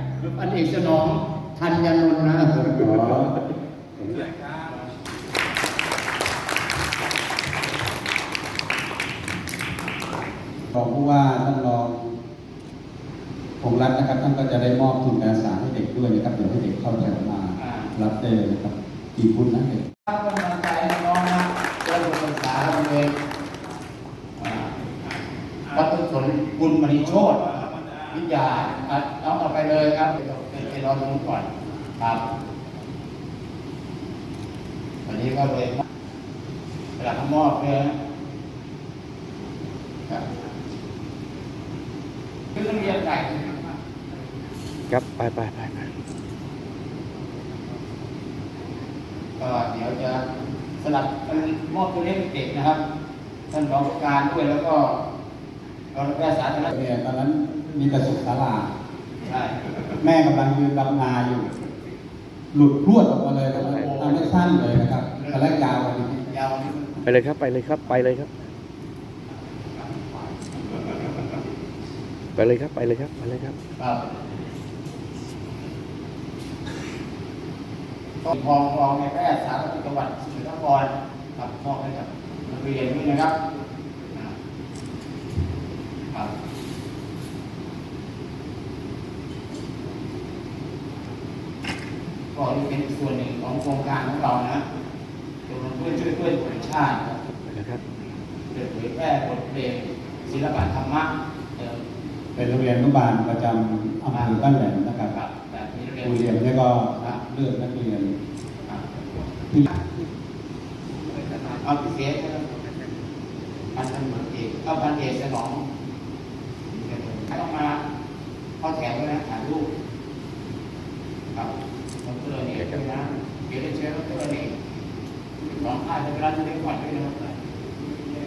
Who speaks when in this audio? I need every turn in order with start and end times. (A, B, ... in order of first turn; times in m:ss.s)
0:00.2-0:03.2 A
0:02.9-0:03.4 B
0:04.0-0:04.2 B
0:10.7-0:12.1 C
0:13.6-0:19.8 C
0:17.6-0:17.9 A
0:20.0-0:23.1 A
0:24.4-0:24.7 A
0:25.7-0:31.5 A
0:35.0-0:35.8 A
0:37.0-0:37.9 A
0:42.5-0:43.6 A
0:44.9-0:45.9 B
0:49.4-0:50.2 A
0:50.8-0:52.8 A
0:53.5-0:55.0 A
0:55.9-0:56.7 A
0:56.7-0:58.7 C
0:59.2-0:59.6 A
1:00.0-1:01.5 C
1:02.5-1:06.2 C
1:03.5-1:05.6 A
1:06.3-1:07.1 A
1:07.0-1:08.3 B
1:12.4-1:13.6 B
1:13.8-1:14.2 A
1:18.2-1:23.4 A
1:32.3-1:34.6 A
1:35.5-1:37.2 A
1:38.5-1:41.8 A
1:42.4-1:45.1 C
1:44.1-1:44.4 A
1:45.1-1:46.3 A
1:46.0-1:48.1 C
1:51.4-1:52.4 A
1:53.7-1:55.6 A
1:56.7-1:57.8 A
1:58.6-1:59.7 A
2:01.3-2:04.5 A
2:05.6-2:07.2 A